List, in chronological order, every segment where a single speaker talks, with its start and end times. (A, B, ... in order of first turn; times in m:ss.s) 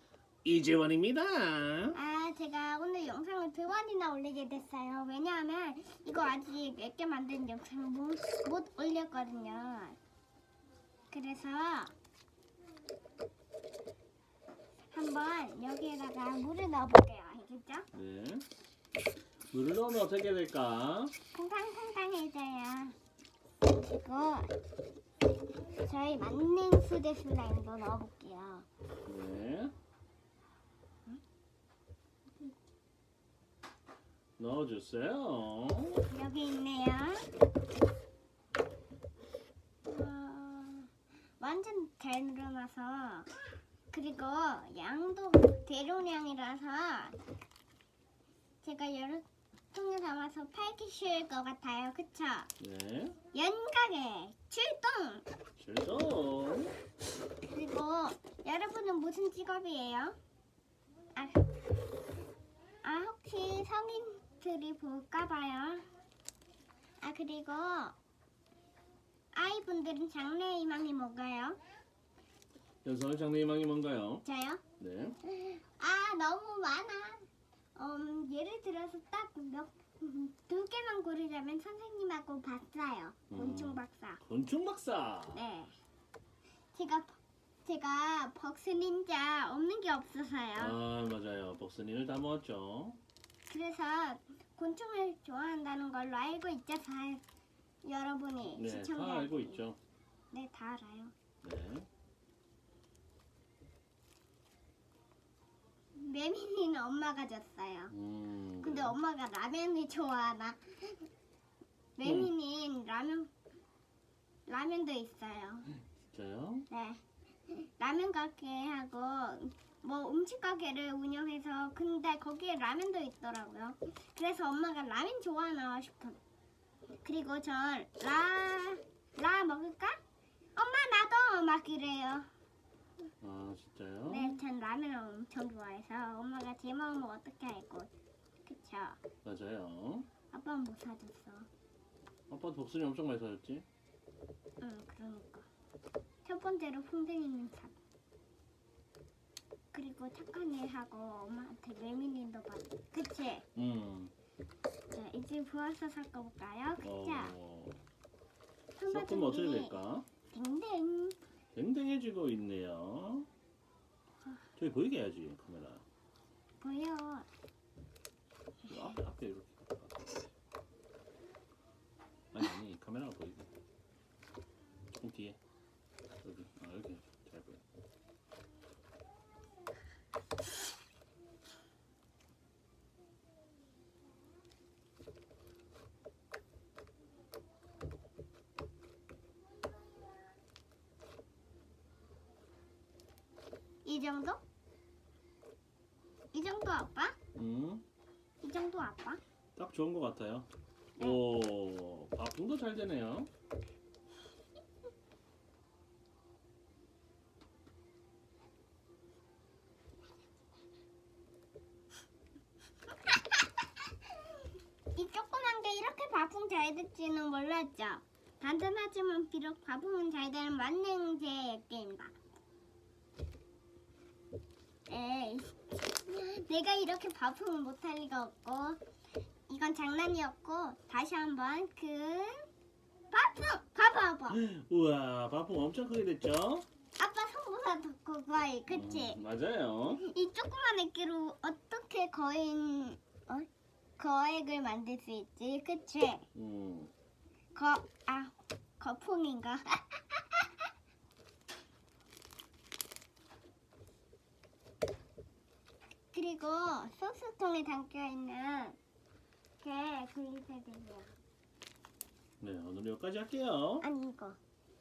0:00.4-0:02.0 A
0:01.9-0:10.0 B
0:11.1-0:11.9 B
0:14.9-0:17.9 B
0:17.9-0:18.4 A
0:19.5-0:21.1 A
0:21.3-0:23.0 B
0:23.8-0:24.5 B
0:25.8-0:28.7 B
0:29.0-0:29.7 A
0:34.4-0:36.0 A
0:36.1-0:37.3 B
0:39.8-0:40.9 B
0:41.4-0:43.3 B
0:43.9-0:47.2 B
0:48.6-0:52.5 B
0:52.6-0:53.2 A
0:53.3-0:55.2 B
0:55.6-0:56.7 A
0:57.4-1:00.2 B
1:01.1-1:01.4 B
1:02.8-1:05.8 B
1:07.0-1:08.0 B
1:09.3-1:11.6 B
1:12.8-1:14.2 A
1:14.2-1:14.6 B
1:14.8-1:15.2 A
1:15.2-1:24.2 B
1:23.3-1:25.4 A
1:25.3-1:25.7 B
1:26.7-1:30.8 B
1:30.6-1:33.0 A
1:33.5-1:37.2 B
1:37.8-1:39.6 B
1:38.5-1:39.8 A
1:40.3-1:41.1 B
1:41.4-1:41.9 A
1:45.9-1:47.9 B
1:47.9-1:49.0 A
1:48.6-1:51.1 B
1:52.0-1:53.3 B
1:52.0-1:52.3 A
1:54.5-1:55.7 B
1:56.1-1:56.7 A
1:56.7-2:06.2 B
2:07.0-2:10.0 B
2:10.5-2:12.3 B
2:13.2-2:14.4 A
2:14.1-2:17.9 B
2:18.4-2:19.0 B
2:19.2-2:20.1 A
2:20.3-2:21.5 B
2:22.3-2:23.6 A
2:24.6-2:25.5 B
2:26.2-2:27.7 B
2:29.7-2:33.4 B
2:33.6-2:34.1 A
2:34.9-2:37.3 B
2:36.8-2:37.8 A
2:38.8-2:39.8 B
2:38.9-2:40.1 A
2:40.3-2:41.2 B
2:41.5-2:43.3 A
2:44.6-2:45.8 A
2:46.6-2:47.3 B
2:48.7-2:50.1 A
2:52.3-2:53.5 A
2:54.9-2:55.4 A
2:56.2-2:57.6 A
3:13.8-3:14.4 B
3:16.3-3:17.2 B
3:17.3-3:17.8 A
3:18.4-3:19.2 B
3:19.6-3:23.3 A
3:34.9-3:42.2 B
3:44.9-3:48.8 B
3:49.5-3:52.5 B
3:53.1-3:54.4 B
3:54.3-3:56.7 A
3:57.0-3:59.2 B
3:58.7-4:00.1 A
4:00.0-4:06.3 B
4:06.3-4:06.9 A
4:07.5-4:10.7 B
4:16.1-4:18.8 B
4:19.6-4:21.1 B
4:22.4-4:23.9 A
4:23.8-4:24.4 B